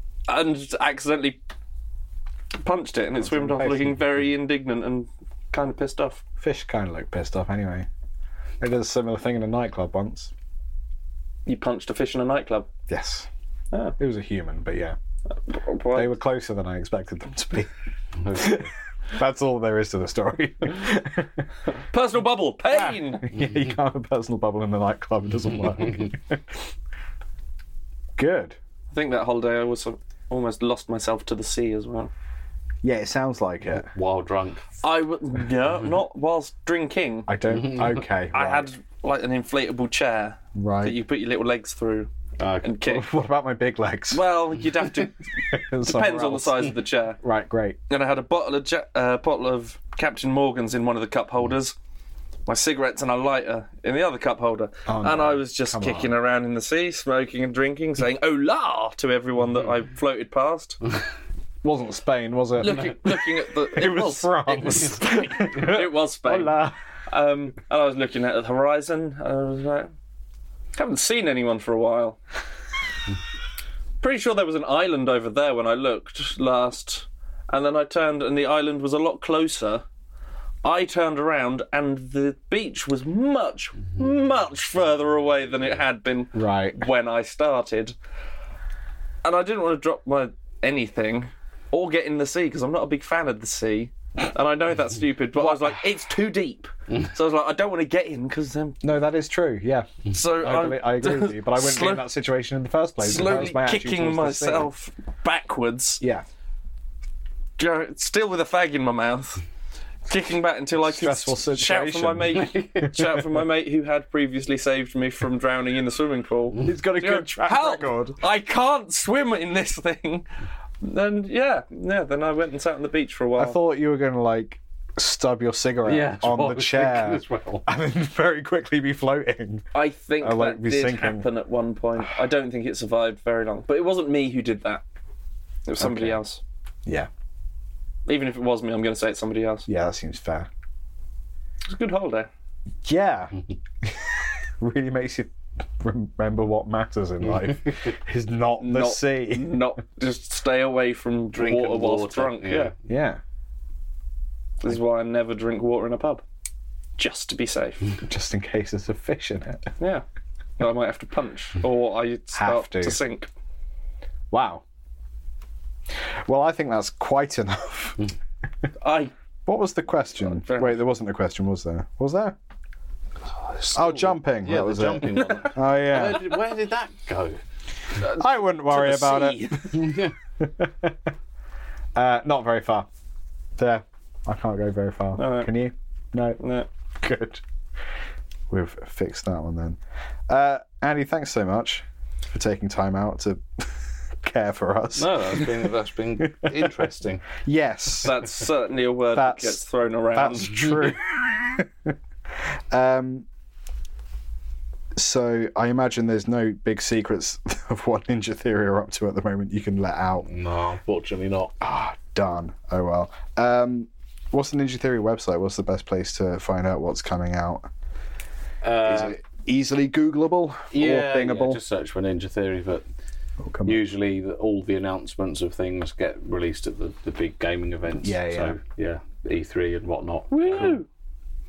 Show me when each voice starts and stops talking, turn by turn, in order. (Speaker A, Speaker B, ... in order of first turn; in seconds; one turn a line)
Speaker A: 0.3-1.4
Speaker A: 2.6-6.2
Speaker B: 3.2-4.0
Speaker B: 6.4-7.9
Speaker B: 8.6-10.3
Speaker A: 11.4-12.7
Speaker B: 12.9-13.3
Speaker B: 14.0-14.9
Speaker A: 15.5-16.2
Speaker B: 15.9-17.7
Speaker C: 18.2-18.7
Speaker B: 18.3-21.4
Speaker A: 21.9-23.3
Speaker B: 22.7-26.4
Speaker B: 28.2-28.6
Speaker A: 28.9-32.1
Speaker B: 32.8-33.9
Speaker C: 33.8-34.7
Speaker A: 34.8-37.3
Speaker B: 37.3-38.7
Speaker C: 37.5-38.0
Speaker A: 38.3-42.1
Speaker B: 40.5-41.0
Speaker C: 42.4-42.7
Speaker A: 42.6-43.1
Speaker B: 42.9-44.2
Speaker A: 44.1-45.2
Speaker B: 45.5-47.8
Speaker A: 45.8-47.2
Speaker A: 47.9-51.8
Speaker A: 52.5-60.8
Speaker B: 54.9-56.1
Speaker B: 61.6-66.8
Speaker A: 62.6-69.9
Speaker A: 70.8-72.2
Speaker A: 74.0-79.8
Speaker A: 80.6-87.9
Speaker B: 86.3-86.8
Speaker A: 89.2-98.8
Speaker B: 98.8-104.7
Speaker A: 100.1-102.1
Speaker A: 103.0-106.0
Speaker B: 106.0-106.2
Speaker A: 107.6-109.4
Speaker A: 110.1-120.2
Speaker B: 110.8-113.0
Speaker B: 116.6-118.2
Speaker A: 120.8-123.6
Speaker B: 123.4-129.7
Speaker C: 125.8-127.7
Speaker A: 129.7-134.8
Speaker B: 130.2-131.2
Speaker A: 135.7-136.4
Speaker B: 135.8-136.2
Speaker A: 138.1-139.7
Speaker B: 139.7-140.5
Speaker A: 141.7-142.3
Speaker B: 142.8-149.6
Speaker A: 148.6-152.7
Speaker C: 151.3-152.7
Speaker B: 152.9-153.2
Speaker A: 154.6-156.2
Speaker A: 157.0-157.9
Speaker B: 158.0-159.7
Speaker A: 160.6-163.3
Speaker B: 162.3-163.0
Speaker B: 164.3-164.6
Speaker B: 166.2-168.0
Speaker A: 168.8-169.1
Speaker B: 169.5-172.4
Speaker A: 170.2-170.8
Speaker C: 173.4-177.4
Speaker B: 173.7-176.4
Speaker A: 178.0-179.9
Speaker B: 178.0-180.9
Speaker C: 179.7-180.1
Speaker B: 181.9-182.9
Speaker B: 183.6-186.4
Speaker A: 185.2-185.5
Speaker A: 186.4-186.7
Speaker B: 187.0-187.4
Speaker B: 188.5-189.8
Speaker B: 190.3-195.7
Speaker C: 195.0-197.3
Speaker B: 196.3-198.3
Speaker A: 198.0-200.9
Speaker B: 199.1-201.9
Speaker B: 202.7-203.3
Speaker B: 205.0-210.3
Speaker C: 210.2-211.5
Speaker B: 211.6-217.7
Speaker C: 218.6-219.2
Speaker B: 218.8-221.6
Speaker C: 220.7-222.8
Speaker B: 223.4-223.8
Speaker C: 223.7-230.8
Speaker B: 228.0-228.6
Speaker A: 230.3-230.9